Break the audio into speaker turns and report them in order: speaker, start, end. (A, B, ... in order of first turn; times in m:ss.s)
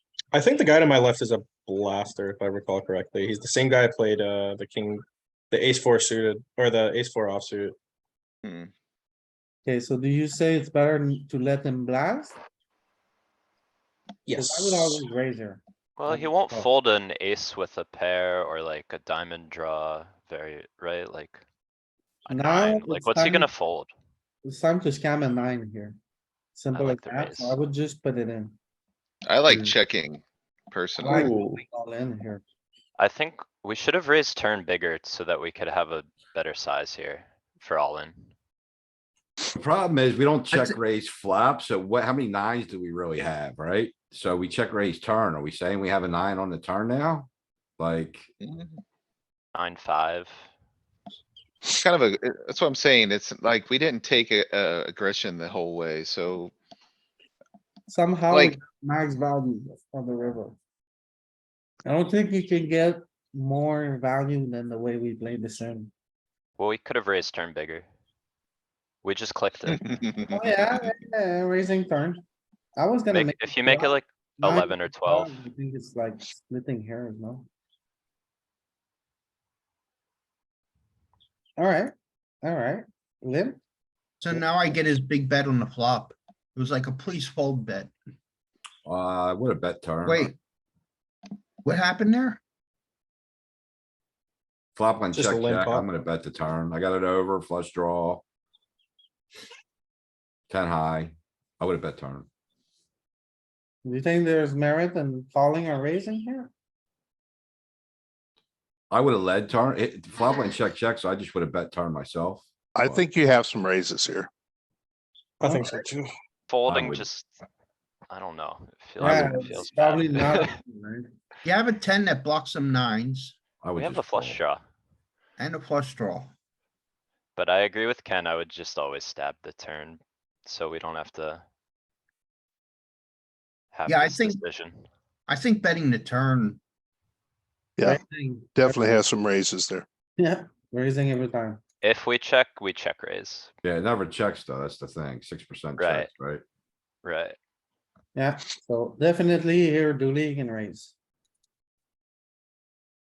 0:00.3-0:07.7 A
0:08.4-0:08.7 B
0:09.6-0:12.4 C
0:14.2-0:15.0 A
0:14.4-0:15.6 C
0:16.0-0:21.4 D
0:16.1-0:16.7 A
0:22.2-0:23.9 D
0:22.3-0:23.5 C
0:24.4-0:26.0 C
0:26.5-0:28.6 C
0:26.7-0:27.6 D
0:29.2-0:31.3 B
0:31.0-0:32.4 C
0:31.1-0:31.6 E
0:33.0-0:38.3 D
0:39.5-0:48.3 F
0:48.4-0:48.8 B
0:49.5-0:50.5 D
0:51.7-0:56.5 B
0:57.9-1:00.6 C
0:58.3-0:58.6 B
1:01.8-1:05.9 C
1:06.6-1:07.8 D
1:09.0-1:10.0 D
1:09.7-1:10.4 B
1:10.3-1:12.2 C
1:12.8-1:17.5 C
1:13.1-1:15.5 D
1:21.6-1:21.9 C
1:22.4-1:23.6 C
1:24.2-1:27.9 E
1:28.8-1:30.3 F
1:30.0-1:30.3 E
1:31.6-1:32.4 E
1:34.8-1:38.2 F
1:35.1-1:35.8 A
1:40.5-1:42.3 F
1:43.8-1:46.5 C
1:48.9-1:53.1 F
1:52.7-1:54.3 G
1:55.4-1:56.1 A
1:55.4-1:55.8 C
1:56.5-1:57.3 D
1:56.7-1:57.0 F
1:58.1-2:00.5 D
1:59.0-2:01.1 C
2:01.4-2:03.3 E
2:03.6-2:04.4 F
2:03.8-2:04.6 D
2:05.4-2:06.3 E
2:07.4-2:11.4 D
2:13.7-2:14.8 D
2:13.8-2:14.4 E
2:15.3-2:16.6 E
2:17.8-2:19.0 C
2:18.5-2:19.8 G
2:20.2-2:21.6 C
2:21.8-2:23.5 D
2:23.6-2:26.4 F
2:25.8-2:26.1 D
2:27.0-2:27.4 D
2:28.1-2:30.9 C